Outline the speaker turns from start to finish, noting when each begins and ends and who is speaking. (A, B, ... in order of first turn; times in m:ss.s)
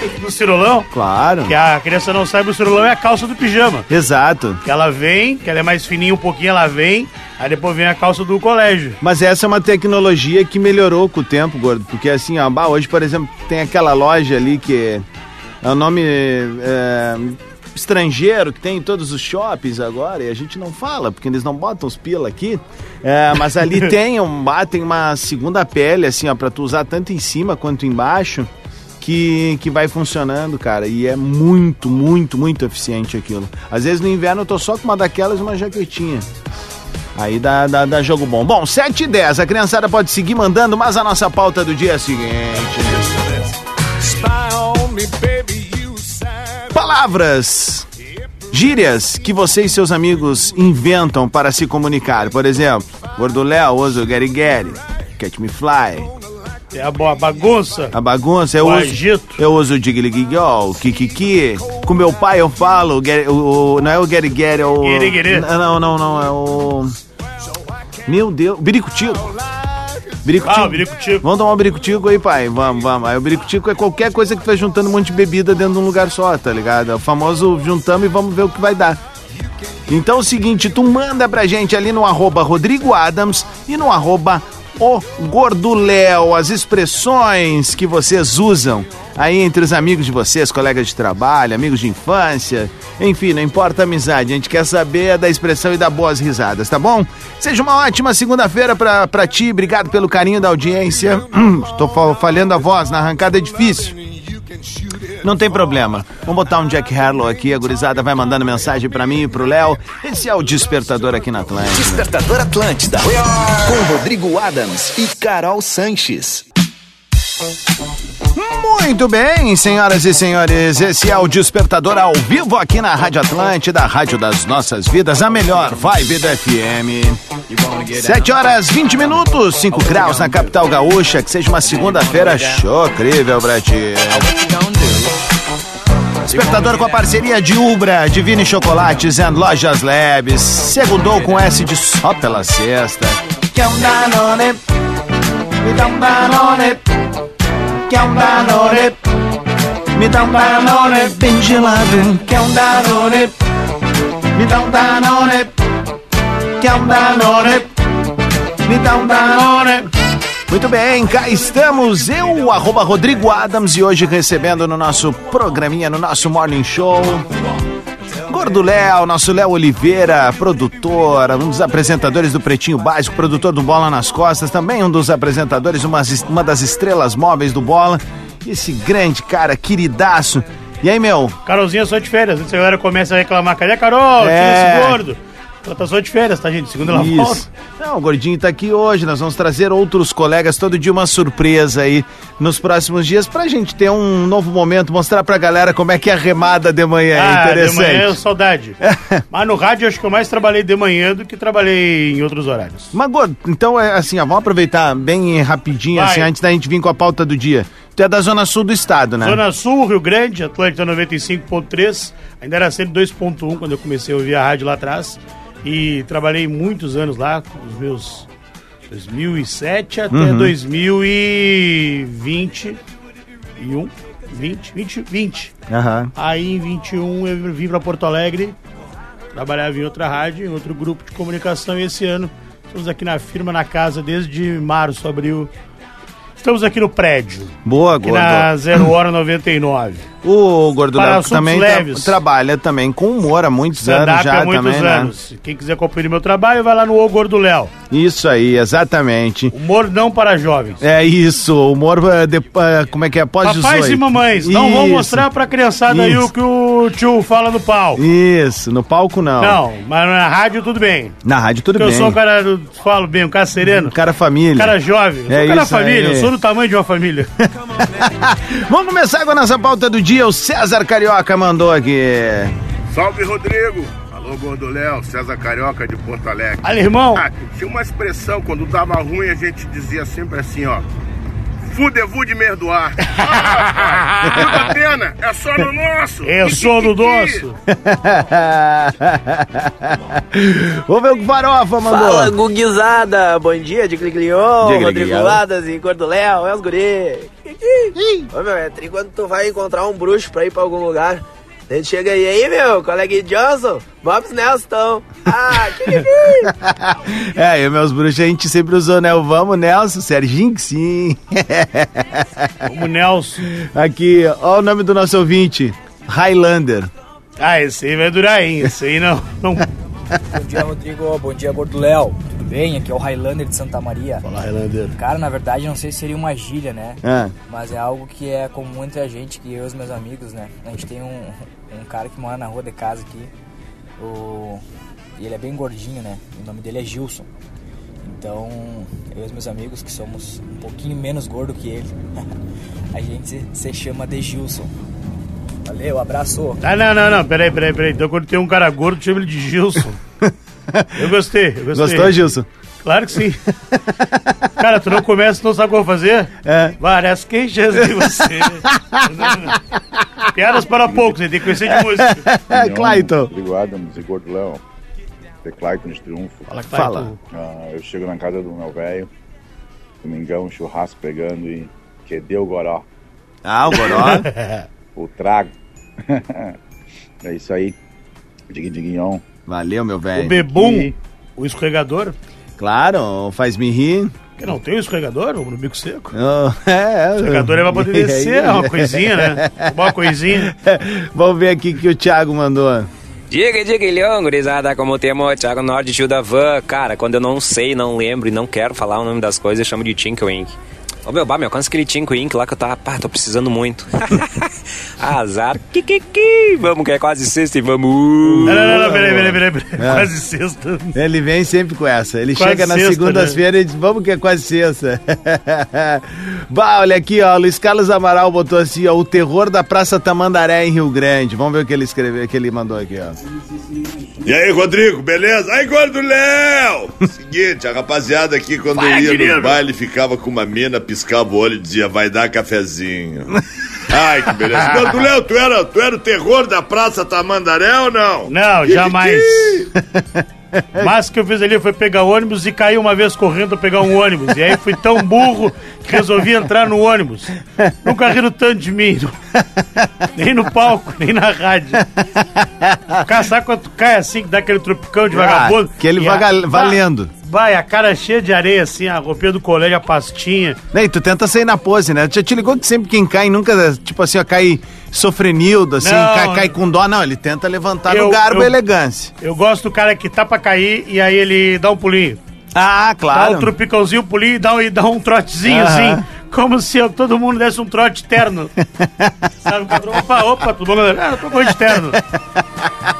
0:00.2-0:00.9 A
0:00.9-0:01.5 B
0:01.5-0:03.9 A
0:03.9-0:04.6 B
0:04.6-0:09.0 A
0:09.0-0:15.0 B
0:15.6-0:28.5 B
0:29.0-0:36.3 B
0:37.2-0:43.2 B
0:46.7-0:47.9 B
0:48.5-0:56.1 B
0:56.7-0:57.9 A
0:57.9-1:06.9 B
0:58.6-0:59.4 A
1:04.8-1:05.5 A
1:08.1-1:09.3 B
1:10.2-1:19.0 B
1:10.4-1:11.2 A
1:19.9-1:44.0 B
1:45.2-1:52.1 B
1:51.7-1:56.4 C
1:58.4-2:07.2 B
2:07.5-2:08.3 D
2:08.0-2:14.3 B
2:09.9-2:10.4 D
2:11.7-2:12.6 D
2:14.2-2:15.1 D
2:16.3-2:17.0 D
2:16.3-2:24.6 B
2:25.6-2:26.8 B
2:27.9-2:29.0 B
2:30.0-2:33.3 B
2:30.6-2:31.0 A
2:34.4-2:35.5 B
2:36.6-2:37.7 B
2:38.6-2:39.6 B
2:39.2-2:39.8 A
2:40.5-2:47.3 B
2:48.3-3:01.4 B
3:01.4-3:07.4 A
3:04.2-3:05.0 B
3:06.8-3:18.2 B
3:17.1-3:18.8 A
3:18.8-3:19.2 B
3:19.3-3:22.9 A
3:22.9-3:29.4 B
3:26.0-3:26.3 A
3:29.2-3:38.3 A
3:38.9-3:42.8 A
3:40.1-3:40.5 B
3:43.6-3:45.5 A
3:45.7-3:46.1 B
3:46.2-3:48.6 A
3:49.3-3:55.5 A
3:56.4-4:00.1 A
3:57.6-3:58.5 B
4:00.2-4:05.1 B
4:01.0-4:02.2 A
4:03.8-4:07.7 A
4:07.9-4:09.5 B
4:09.5-4:10.8 A
4:10.8-4:15.2 B
4:13.4-4:18.0 A
4:15.9-4:16.3 B
4:18.0-4:19.6 B
4:19.4-4:21.2 A
4:21.2-4:22.2 B
4:21.8-4:23.9 A
4:23.7-4:24.8 B
4:24.6-4:27.3 A
4:25.3-4:26.3 B
4:27.9-4:32.5 B
4:32.9-4:40.8 E
4:36.6-4:37.2 A
4:41.7-4:47.5 E
4:46.2-4:47.6 A
4:47.7-4:52.4 B
4:51.8-5:06.5 F
4:54.6-4:55.4 B
5:06.4-5:12.5 B
5:12.6-5:13.4 A
5:13.5-5:16.9 B
5:17.4-5:19.7 A
5:20.3-5:24.2 D
5:24.2-5:24.9 A
5:25.0-5:33.3 D
5:27.0-5:27.3 B
5:34.0-5:34.6 D
5:35.2-5:37.3 D
5:38.0-5:42.0 D
5:42.9-5:44.7 D
5:45.6-5:46.6 D
5:46.6-5:50.0 A
5:50.2-5:50.9 B
5:51.0-5:52.1 A
5:51.7-5:52.5 B
5:52.8-5:53.4 A
5:54.6-5:59.5 A
5:56.4-5:56.8 B
5:57.8-5:59.6 B
6:00.3-6:02.2 A
6:00.8-6:01.2 G
6:01.7-6:03.3 B
6:02.5-6:04.6 G
6:05.4-6:06.5 G
6:06.5-6:07.2 A
6:06.7-6:07.1 B
6:07.3-6:09.1 G
6:10.0-6:12.9 G
6:13.4-6:14.3 B
6:13.7-6:14.6 A
6:15.0-6:15.5 G
6:16.1-6:16.6 G
6:17.2-6:17.8 G
6:18.5-6:19.2 G
6:19.5-6:20.5 B
6:20.2-6:22.2 A
6:22.6-6:24.1 B
6:24.4-6:26.1 A
6:26.1-6:29.7 B
6:27.2-6:30.5 A
6:30.2-6:32.9 B
6:33.3-6:40.6 H
6:41.1-6:44.4 H
6:45.0-6:48.9 H
6:48.3-6:50.1 B
6:48.5-6:50.9 A
6:50.9-7:03.2 B
6:52.4-6:53.4 A
7:04.2-7:13.4 I
7:08.8-7:09.6 A
7:13.9-7:19.5 I
7:18.3-7:19.7 A
7:20.5-7:20.9 B
7:20.8-7:29.2 A
7:29.6-7:29.9 B
7:30.2-7:31.8 A
7:31.8-7:33.0 B
7:33.0-7:40.6 A
7:35.1-7:37.1 B
7:40.7-7:49.1 B
7:45.8-7:46.6 A
7:47.9-7:48.6 A
7:49.2-7:52.2 A
7:52.6-7:53.5 B
7:53.1-7:58.5 A
7:55.5-7:56.0 B
7:58.6-7:59.1 B
7:59.4-8:02.0 A
8:01.4-8:02.7 B